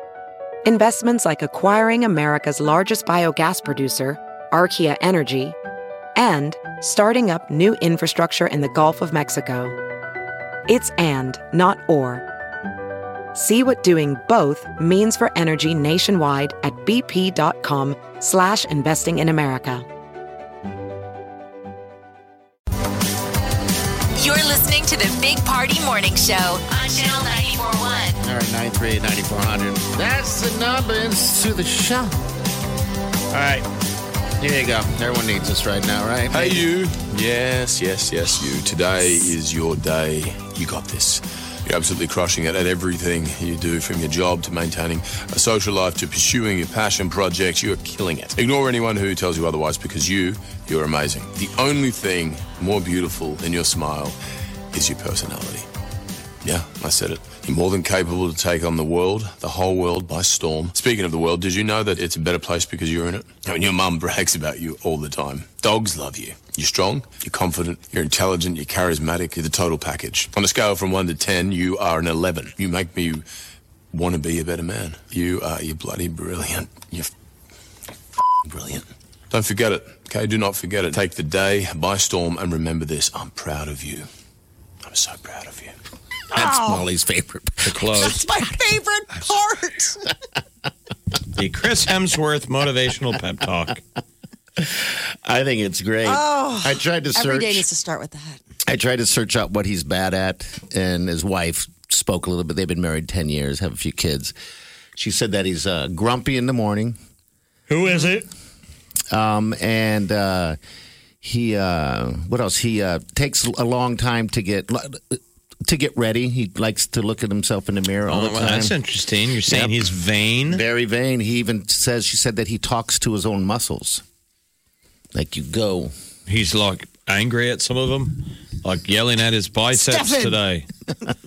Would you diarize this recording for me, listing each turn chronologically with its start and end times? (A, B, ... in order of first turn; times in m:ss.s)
0:00.6-0:05.6 A
0:06.2-0:09.7 A
0:10.7-0:12.2 A
0:13.3-0:19.8 A
0:24.2-0:28.2 B
0:28.2-0:32.1 C
0:33.3-0:33.7 C
0:34.4-0:36.7 C
0:36.3-0:54.1 D
0:54.7-0:55.6 D
0:56.4-1:13.2 D
1:13.9-1:17.1 D
1:18.4-1:24.1 D
1:24.8-1:25.7 D
1:26.3-1:28.1 C
1:26.4-1:26.8 E
1:27.6-1:28.2 F
1:27.9-1:30.1 E
1:31.3-1:33.8 F
1:34.6-1:37.6 C
1:36.0-1:38.4 E
1:38.6-1:44.3 C
1:44.9-1:46.9 C
1:47.7-1:48.2 F
1:49.1-1:50.6 C
1:51.2-1:58.8 C
1:58.1-2:00.6 F
1:59.5-1:59.8 C
2:00.4-2:04.0 C
2:05.1-2:05.9 C
2:06.3-2:10.7 F
2:09.7-2:10.4 E